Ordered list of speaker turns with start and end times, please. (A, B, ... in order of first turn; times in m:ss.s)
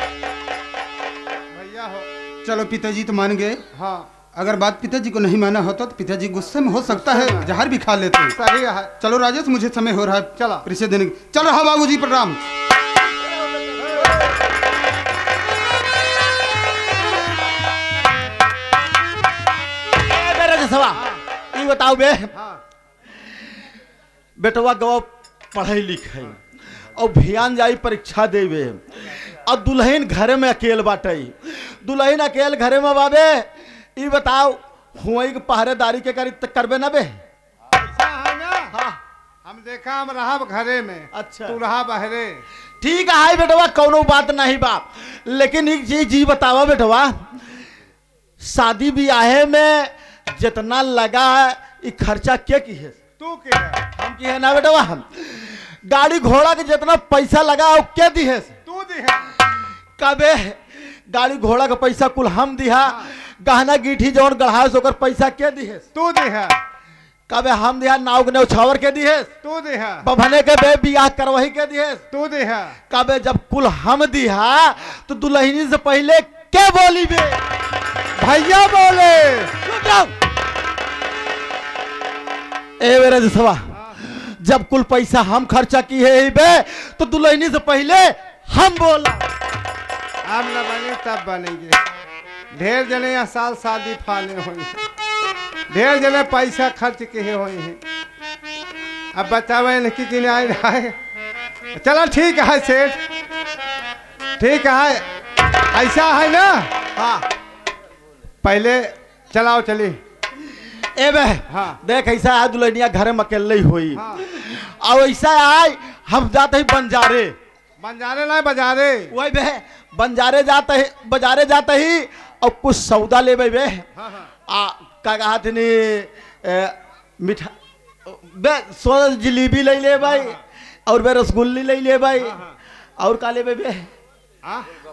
0:01.5-0:02.1 A
0:02.4-0:03.6 B
0:03.7-0:04.1 A
0:04.3-0:08.4 B
0:06.9-0:07.5 A
0:08.4-0:08.9 A
0:09.0-0:12.4 B
0:10.4-0:10.6 A
0:13.0-0:14.3 C
0:13.8-0:14.3 A
0:20.0-0:21.0 C
0:21.5-0:22.3 C
0:22.3-0:22.6 A
0:24.4-0:26.4 C
0:27.0-0:28.9 C
0:29.4-0:37.2 C
0:37.8-0:38.7 A
0:38.7-0:39.0 C
0:39.4-0:42.4 A
0:41.1-0:41.6 C
0:42.8-0:47.3 C
0:48.4-0:53.0 C
0:53.2-0:53.8 A
0:54.0-0:58.5 C
0:58.6-0:59.4 A
1:00.0-1:05.8 C
1:02.8-1:03.1 A
1:05.9-1:06.6 A
1:07.3-1:09.3 C
1:09.4-1:10.1 A
1:10.0-1:12.0 C
1:12.1-1:12.8 A
1:12.9-1:17.4 C
1:18.2-1:19.5 A
1:19.6-1:20.1 C
1:22.8-1:29.3 C
1:23.7-1:24.0 A
1:30.3-1:31.8 A
1:32.5-1:34.8 A
1:35.7-1:37.8 A
1:39.1-1:40.9 A
1:41.7-1:43.0 A
1:44.4-1:45.0 A
1:45.7-1:46.7 A
1:47.0-1:47.2 C
1:48.4-1:50.0 A
1:51.0-1:57.4 C
1:51.5-1:51.8 A
1:53.9-1:54.2 A
1:57.8-1:59.1 A
1:59.1-2:03.8 C
2:04.0-2:04.3 A
2:04.5-2:07.5 C
2:08.0-2:12.4 C
2:10.0-2:10.4 A
2:12.2-2:12.6 A
2:13.0-2:13.9 C